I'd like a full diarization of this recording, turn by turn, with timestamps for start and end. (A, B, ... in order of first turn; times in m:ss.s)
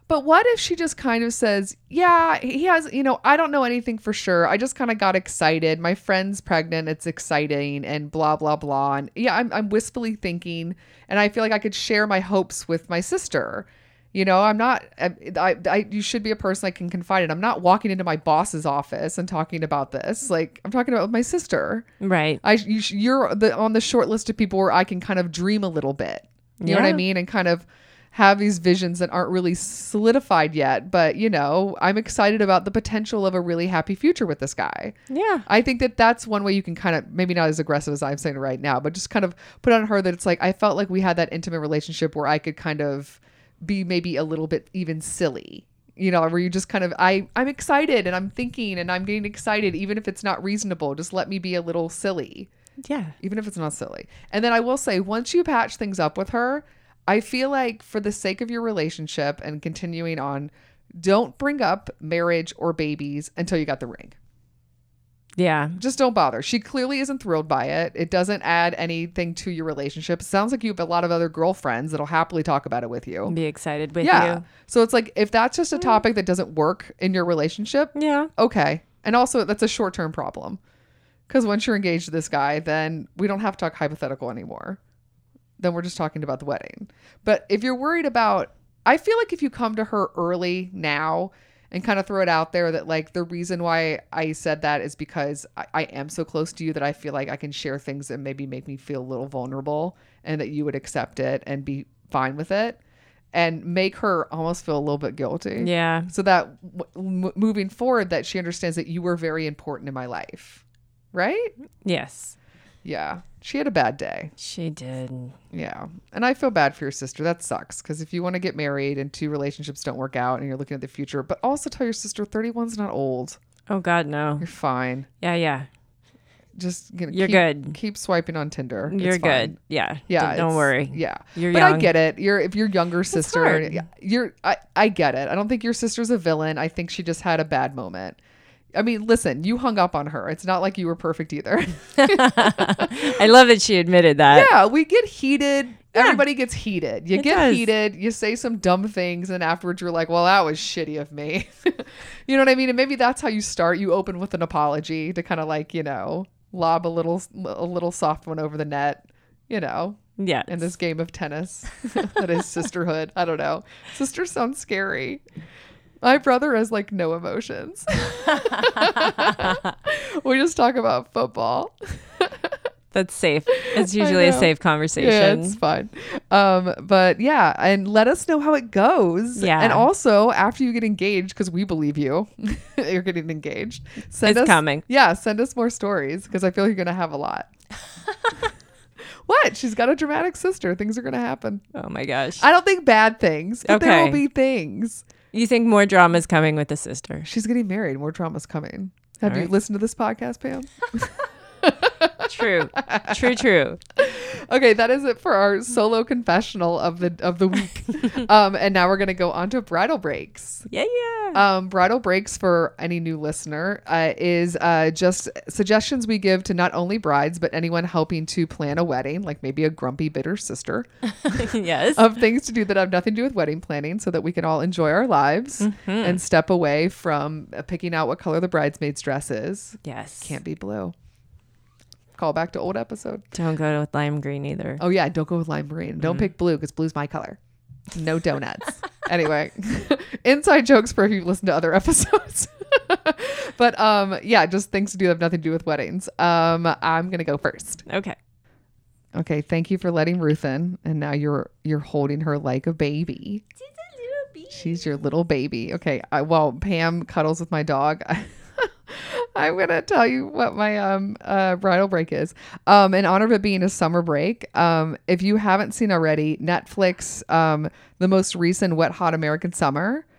0:00.1-0:21.9 A
0:22.0-0:22.4 B
0:22.4-0:35.0 A
0:26.6-0:27.0 B
0:35.1-0:35.4 B
0:35.5-0:52.5 A
0:52.8-0:53.2 B
0:53.2-1:04.2 A
1:05.4-1:05.8 B
1:05.8-1:13.4 A
1:13.3-1:14.4 B
1:14.0-1:20.6 A
1:18.0-1:18.3 B
1:21.3-1:24.8 A
1:25.6-1:42.8 A
1:43.3-1:50.6 A
1:45.6-1:46.1 B
1:51.1-1:51.5 A
1:51.8-1:52.4 B
1:52.8-1:54.3 A
1:54.4-1:55.4 B
1:55.5-2:03.4 A
2:03.7-2:04.5 B
2:04.4-2:05.1 A
2:05.2-2:05.7 B
2:06.6-2:09.6 A
2:07.1-2:07.8 B
2:08.9-2:11.9 B
2:10.1-2:18.2 A
2:13.1-2:13.9 B
2:18.8-2:23.1 A
2:22.0-2:24.5 B
2:24.3-2:45.2 A
2:26.0-2:26.2 B
2:27.2-2:27.7 B
2:40.2-2:40.7 B
2:46.0-2:52.5 A
2:48.6-2:49.5 B
2:52.9-2:55.6 B
2:53.6-3:07.5 A
2:59.4-2:59.9 B
3:04.2-3:04.8 B
3:09.3-3:11.6 A
3:11.8-3:12.5 B
3:12.4-3:15.0 A
3:13.6-3:14.2 B
3:15.3-3:17.3 B
3:17.2-3:23.4 A
3:19.2-3:19.5 B
3:22.2-3:23.8 B
3:24.0-3:30.7 A
3:30.7-3:31.4 B
3:31.3-3:50.9 A
3:41.3-3:42.0 B
3:45.6-3:46.2 B
3:49.8-3:50.4 B
3:52.2-3:53.3 A
3:53.3-3:54.8 B
3:54.8-3:57.4 A
3:56.0-3:56.3 B
3:57.9-4:07.8 A
4:07.9-4:08.2 B
4:09.2-4:13.4 A
4:13.7-4:14.9 B
4:14.5-4:30.0 A